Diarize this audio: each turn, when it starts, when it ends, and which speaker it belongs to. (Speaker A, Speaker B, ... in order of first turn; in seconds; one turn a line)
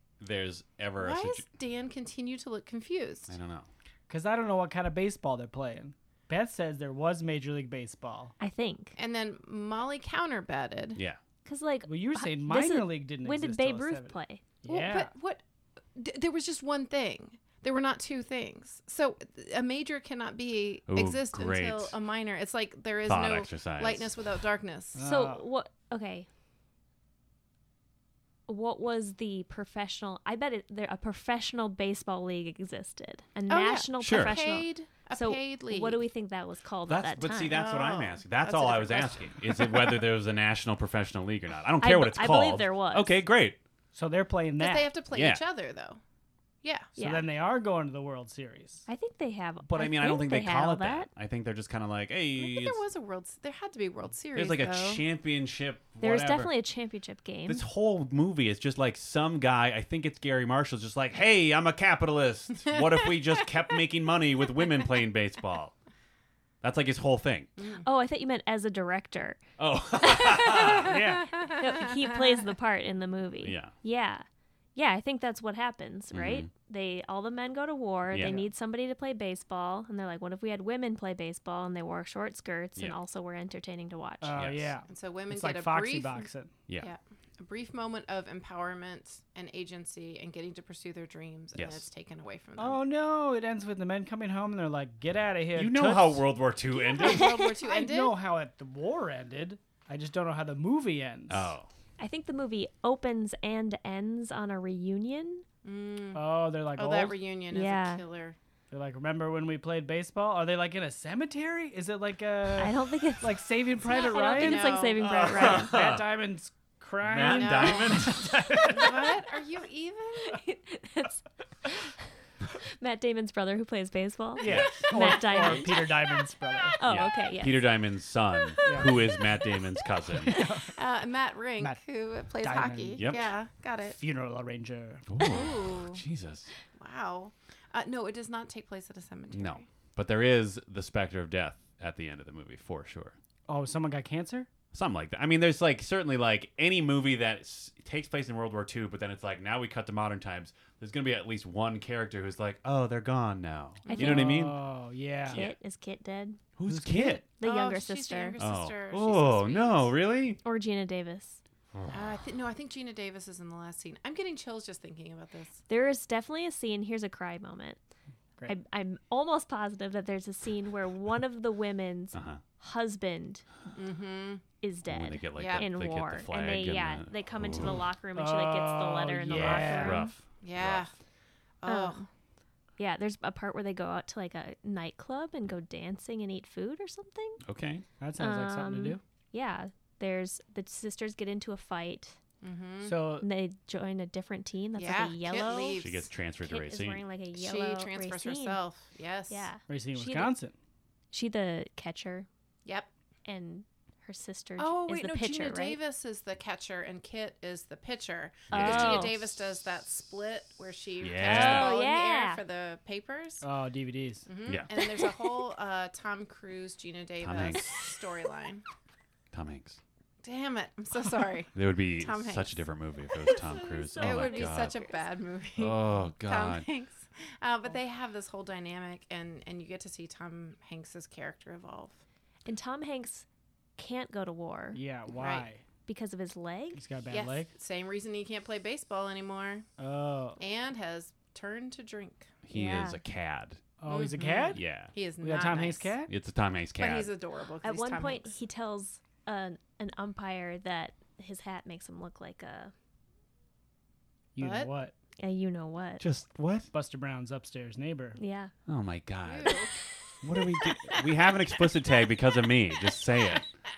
Speaker A: 0.2-1.4
Speaker B: 1.0-3.3
Speaker A: 3.3-3.7
Speaker C: 4.1-8.3
Speaker D: 8.4-8.9
Speaker B: 9.0-11.0
Speaker D: 11.4-14.4
Speaker C: 11.8-15.1
Speaker B: 14.7-15.4
Speaker B: 15.9-25.0
Speaker A: 20.9-21.9
Speaker A: 23.0-24.1
Speaker C: 24.9-25.4
Speaker D: 25.0-26.3
Speaker D: 28.5-37.6
Speaker B: 33.5-36.0
Speaker A: 34.0-34.4
Speaker A: 36.9-43.6
Speaker B: 37.5-40.0
Speaker D: 41.8-43.2
Speaker C: 43.9-44.9
Speaker B: 44.6-46.0
Speaker A: 45.1-45.4
Speaker B: 46.6-46.9
Speaker D: 47.0-47.2
Speaker C: 47.0-48.8
Speaker D: 48.9-51.1
Speaker A: 49.6-52.8
Speaker B: 52.4-55.0
Speaker A: 54.3-56.5
Speaker D: 56.0-57.6
Speaker A: 57.5-65.7
Speaker A: 66.6-67.5
Speaker B: 67.6-67.8
Speaker D: 67.8-69.4
Speaker A: 69.6-71.0
Speaker B: 70.5-72.1
Speaker C: 70.8-71.3
Speaker D: 71.5-84.4
Speaker A: 73.4-73.7
Speaker A: 76.1-76.5
Speaker A: 78.1-78.4
Speaker C: 78.2-78.5
Speaker C: 84.2-86.5
Speaker A: 84.3-84.7
Speaker B: 84.9-86.3
Speaker B: 86.8-92.8
Speaker A: 91.5-91.8
Speaker C: 92.6-96.2
Speaker A: 95.5-97.4
Speaker B: 96.7-98.2
Speaker C: 97.6-101.5
Speaker A: 101.3-101.7
Speaker D: 102.0-105.4
Speaker B: 105.6-108.4
Speaker C: 106.1-107.2
Speaker D: 107.5-108.0
Speaker C: 108.7-114.8
Speaker D: 112.6-115.8
Speaker B: 113.9-115.3
Speaker A: 115.0-116.1
Speaker C: 115.4-119.1
Speaker A: 117.0-118.3
Speaker B: 117.2-118.0
Speaker B: 118.6-120.4
Speaker D: 120.3-121.9
Speaker D: 122.6-126.0
Speaker C: 124.4-126.8
Speaker A: 124.4-124.9
Speaker D: 126.8-127.7
Speaker A: 126.8-130.4
Speaker C: 128.6-129.0
Speaker C: 130.2-130.7
Speaker B: 130.7-134.0
Speaker C: 132.4-133.1
Speaker A: 133.0-133.3
Speaker C: 133.8-135.1
Speaker A: 135.1-136.5
Speaker B: 135.2-136.0
Speaker B: 136.8-139.6
Speaker A: 139.3-143.2
Speaker C: 143.5-144.5
Speaker A: 144.7-154.6
Speaker B: 153.9-154.3
Speaker C: 153.9-155.4
Speaker D: 155.3-156.4
Speaker A: 155.3-155.6
Speaker A: 156.6-157.2
Speaker C: 156.6-157.2
Speaker D: 157.4-158.4
Speaker B: 157.4-159.9
Speaker A: 158.4-160.4
Speaker D: 160.4-161.4
Speaker A: 161.7-162.1
Speaker B: 161.9-165.6
Speaker D: 165.7-167.8
Speaker D: 168.5-173.4
Speaker A: 172.1-172.4
Speaker B: 173.7-174.4
Speaker D: 174.6-180.1
Speaker A: 174.9-177.8
Speaker B: 175.3-175.7
Speaker C: 178.1-180.0
Speaker A: 179.3-180.9
Speaker B: 180.4-180.9
Speaker B: 181.6-182.1
Speaker D: 181.7-182.0
Speaker D: 182.8-187.4
Speaker A: 187.4-187.8
Speaker C: 188.0-189.0
Speaker D: 188.2-192.2
Speaker B: 192.4-193.0
Speaker C: 192.8-193.3
Speaker D: 193.2-195.8
Speaker B: 194.8-196.1
Speaker A: 195.8-197.0
Speaker D: 196.4-198.6
Speaker B: 197.3-199.5
Speaker D: 199.3-200.3
Speaker C: 199.7-200.5
Speaker D: 201.1-202.3
Speaker D: 203.2-205.8
Speaker B: 204.6-213.4
Speaker A: 208.5-209.2
Speaker D: 208.5-209.2
Speaker A: 211.0-211.8
Speaker D: 211.2-212.4
Speaker C: 213.4-214.3
Speaker B: 214.2-218.6
Speaker A: 214.4-214.7
Speaker A: 217.2-217.8
Speaker A: 219.3-219.8
Speaker B: 220.2-222.6
Speaker A: 221.5-224.8
Speaker D: 223.3-225.0
Speaker B: 224.0-232.0
Speaker A: 225.6-226.7
Speaker D: 232.4-233.2
Speaker D: 233.8-234.8
Speaker C: 234.7-235.6
Speaker B: 235.1-235.5
Speaker D: 235.9-236.8
Speaker C: 236.7-237.5
Speaker B: 237.1-239.7
Speaker C: 239.8-240.4
Speaker B: 240.4-242.3
Speaker A: 242.4-243.6
Speaker D: 242.5-243.0
Speaker C: 243.8-244.6
Speaker B: 243.9-245.9
Speaker A: 244.5-244.9
Speaker C: 245.2-246.1
Speaker A: 246.1-247.1
Speaker B: 246.8-248.4
Speaker D: 247.6-252.7
Speaker C: 254.3-254.9
Speaker B: 254.4-254.7
Speaker D: 255.2-256.1
Speaker A: 256.0-256.7
Speaker C: 256.7-258.2
Speaker D: 258.1-258.5
Speaker A: 258.7-259.6
Speaker B: 259.2-259.7
Speaker A: 260.2-263.4